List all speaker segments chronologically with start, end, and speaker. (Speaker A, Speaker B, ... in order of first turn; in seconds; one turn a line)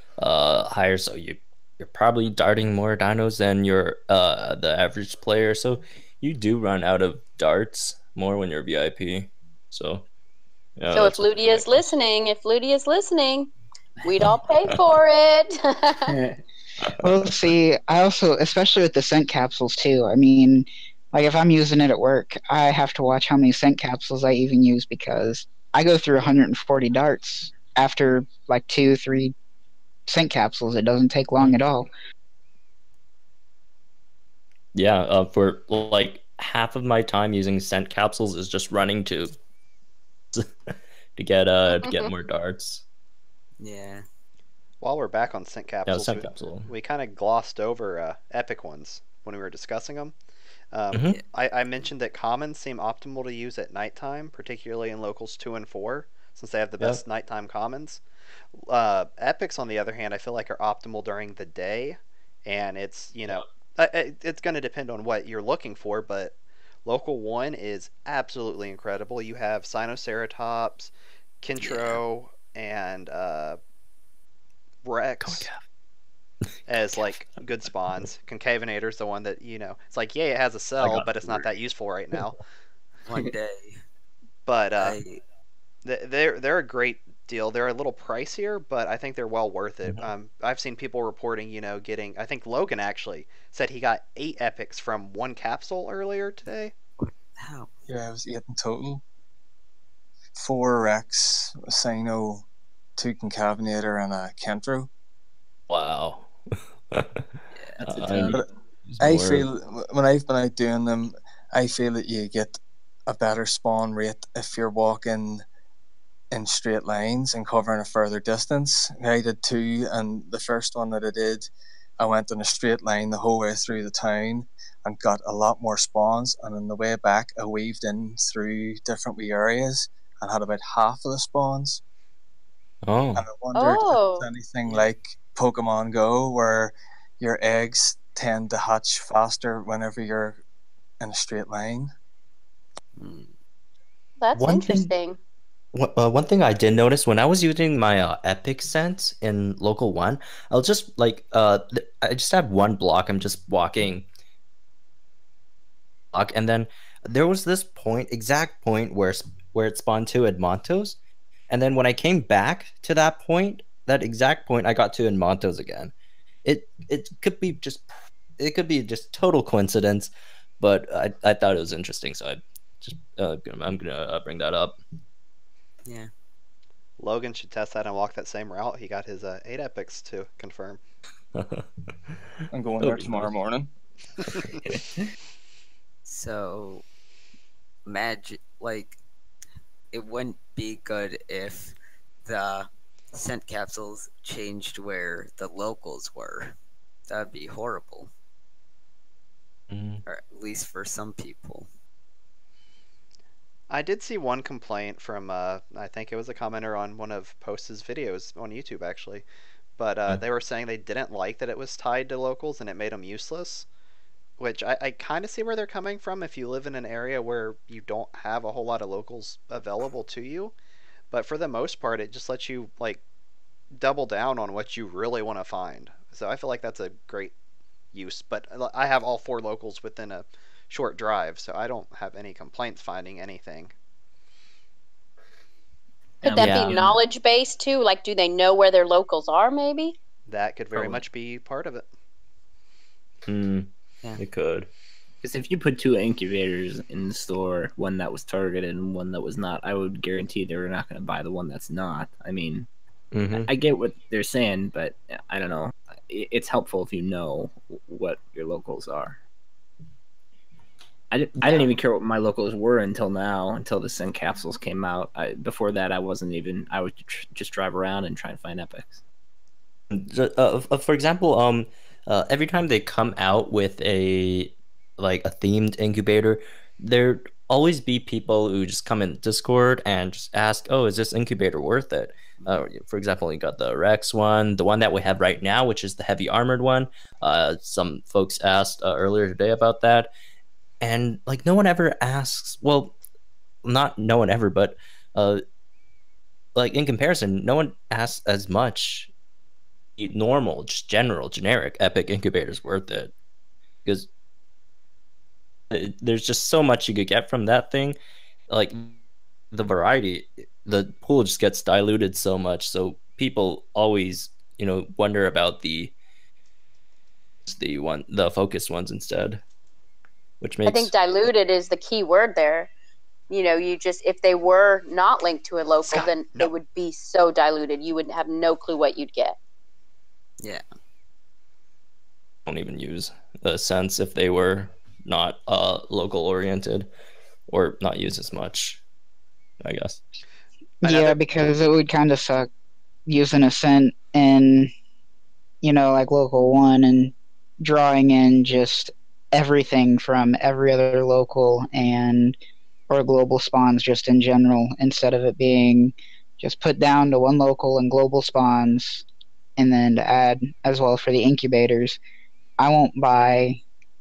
Speaker A: 0.2-10.1
Speaker A: 10.8-11.8
Speaker B: 10.9-13.5
Speaker B: 14.1-16.1
Speaker C: 16.1-16.4
Speaker D: 17.0-29.4
Speaker D: 30.1-31.9
Speaker A: 34.8-39.4
Speaker A: 40.3-42.8
Speaker B: 41.8-42.1
Speaker E: 43.6-44.0
Speaker F: 44.8-50.1
Speaker A: 45.9-46.7
Speaker F: 50.7-58.0
Speaker A: 50.9-51.2
Speaker F: 58.5-73.6
Speaker E: 71.6-72.0
Speaker F: 74.8-75.5
Speaker A: 75.2-75.6
Speaker F: 76.7-82.4
Speaker A: 76.9-77.2
Speaker A: 80.8-81.5
Speaker E: 83.1-83.8
Speaker F: 84.5-85.0
Speaker E: 84.8-85.2
Speaker F: 85.8-96.7
Speaker E: 97.0-97.7
Speaker G: 97.9-99.0
Speaker G: 100.3-102.5
Speaker G: 103.0-104.9
Speaker A: 105.7-106.3
Speaker C: 107.8-108.4
Speaker A: 107.9-109.5
Speaker G: 109.0-115.5
Speaker G: 116.3-131.8
Speaker A: 132.8-133.2
Speaker G: 133.2-140.4
Speaker B: 133.6-134.3
Speaker G: 141.0-141.9
Speaker E: 143.0-143.3
Speaker B: 144.2-145.2
Speaker A: 144.3-144.9
Speaker A: 145.7-154.1
Speaker A: 156.1-161.0
Speaker A: 161.5-165.9
Speaker A: 166.4-174.8
Speaker F: 177.0-180.8
Speaker A: 181.3-181.7
Speaker G: 182.5-183.7
Speaker A: 182.8-183.3
Speaker C: 184.7-185.1
Speaker E: 186.1-186.8
Speaker E: 187.9-189.0
Speaker E: 189.9-196.6
Speaker E: 197.1-198.1
Speaker A: 199.7-200.0
Speaker E: 200.1-201.7
Speaker F: 203.7-209.3
Speaker F: 209.8-213.7
Speaker F: 214.4-220.6
Speaker F: 221.1-223.0
Speaker F: 223.7-227.3
Speaker F: 227.9-233.7
Speaker C: 236.2-237.0
Speaker B: 236.2-240.0
Speaker A: 236.4-236.9
Speaker F: 240.3-241.8
Speaker A: 243.3-244.7
Speaker C: 245.2-252.7
Speaker A: 253.1-253.5
Speaker C: 253.3-259.2
Speaker C: 261.1-269.0
Speaker A: 269.9-290.1
Speaker A: 290.8-292.9
Speaker A: 293.6-295.4
Speaker A: 296.6-299.1
Speaker A: 300.0-303.1
Speaker A: 305.7-308.0
Speaker A: 308.5-309.0
Speaker A: 309.5-315.9
Speaker A: 317.5-319.4
Speaker A: 320.4-320.9
Speaker B: 320.7-322.7
Speaker B: 323.3-329.4
Speaker F: 325.9-326.5
Speaker A: 332.5-336.9
Speaker A: 337.5-338.8
Speaker A: 339.6-340.0
Speaker D: 340.8-342.5
Speaker F: 340.8-341.2
Speaker D: 343.1-344.7
Speaker D: 345.6-352.4
Speaker D: 352.9-359.1
Speaker D: 359.6-362.0
Speaker D: 362.6-363.6